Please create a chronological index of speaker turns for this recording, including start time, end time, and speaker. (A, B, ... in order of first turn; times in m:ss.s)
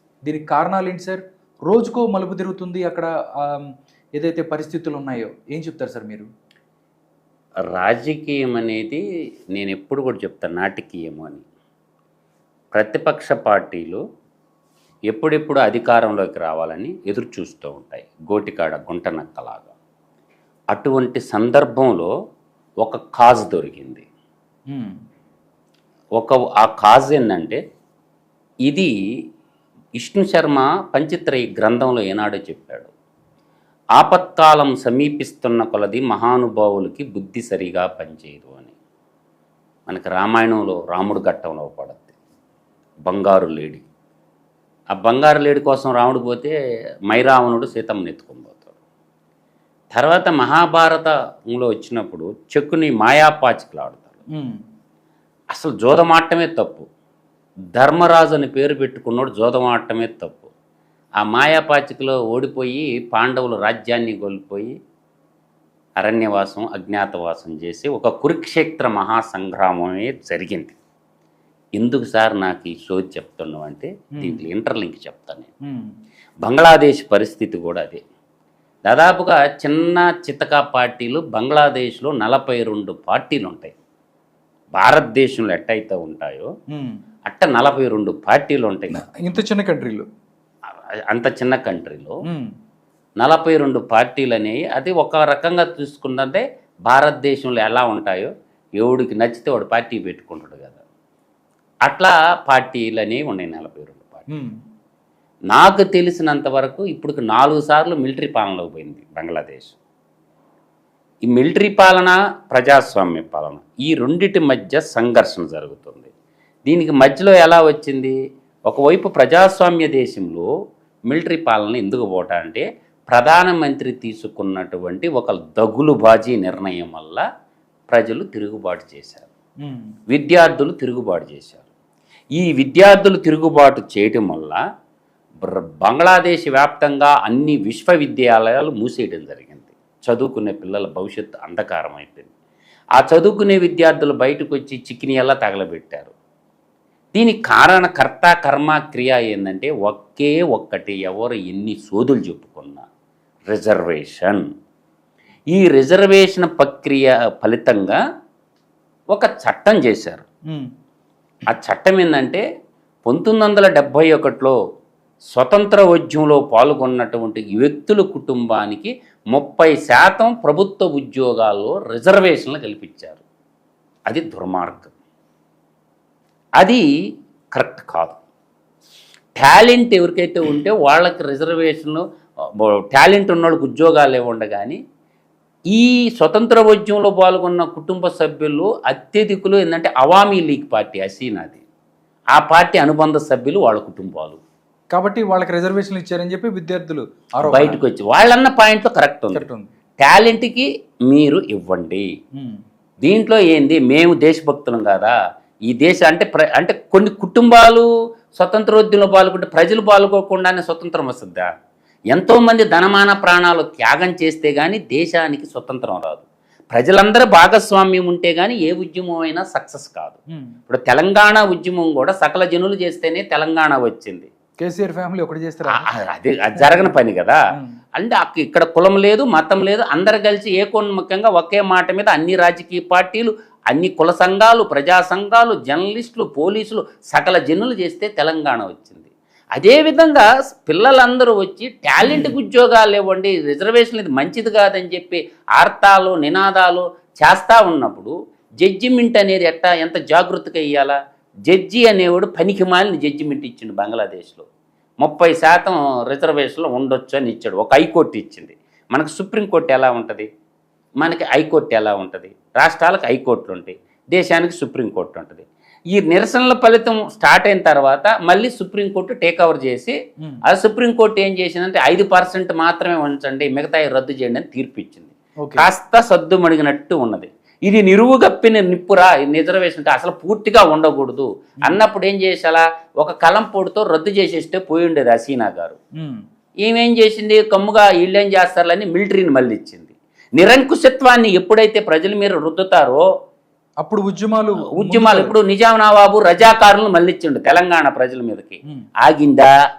0:00.2-0:06.3 A
0:07.7-0:09.0 B
0:09.6-0:11.4 B
0:12.7-0:14.0 B
0:15.1-0:19.7 B
0:20.7-0:22.1 B
0:22.8-0:24.0 B
0:26.2-0:27.6 B
0:28.6-0:28.9 B
0:30.0-0:32.9 B
0:34.0-0:38.7 B
0:39.9-0:42.1 B
0:43.1-0:43.8 B
0:44.9-0:46.5 B
0:47.1-0:48.7 B
0:49.9-0:54.2 B
0:55.5-0:56.8 B
0:57.8-1:00.5 B
1:01.2-1:04.7 B
1:06.0-1:10.7 B
1:11.8-1:15.5 B
1:14.1-1:14.4 A
1:16.4-1:18.0 B
1:18.9-1:23.7 B
1:24.8-1:26.5 B
1:26.7-1:27.0 A
1:27.3-1:29.0 B
1:28.9-1:30.0 A
1:31.1-1:32.2 B
1:33.2-1:40.8 B
1:41.8-1:44.3 B
1:45.5-1:49.8 B
1:51.2-1:56.1 B
1:56.7-1:58.2 B
1:58.7-2:00.5 B
2:01.1-2:07.2 B
2:07.9-2:09.3 B
2:09.6-2:09.9 A
2:10.1-2:11.6 B
2:12.4-2:14.6 B
2:15.4-2:22.3 B
2:23.0-2:26.1 B
2:27.1-2:32.8 B
2:33.5-2:34.4 B
2:35.5-2:38.0 B
2:39.1-2:40.2 B
2:41.5-2:42.4 B
2:43.0-2:44.6 B
2:45.3-2:53.2 B
2:54.1-2:54.9 B
2:56.6-2:56.8 B
2:57.6-2:58.2 B
2:59.4-3:04.8 B
3:05.7-3:11.6 B
3:12.3-3:14.4 B
3:14.9-3:17.8 A
3:17.4-3:19.4 B
3:19.3-3:19.7 A
3:20.0-3:22.1 B
3:23.0-3:25.1 B
3:25.7-3:31.5 B
3:32.1-3:40.2 B
3:40.7-3:44.3 B
3:44.6-3:45.9 A
3:45.7-3:47.4 B
3:46.6-3:46.9 A
3:48.0-4:14.5 B
4:02.0-4:02.4 A
4:15.0-4:20.3 B
4:21.0-4:45.8 B
4:35.4-4:35.7 A
4:46.6-4:53.0 B
4:53.8-4:55.3 A
4:54.7-4:59.5 B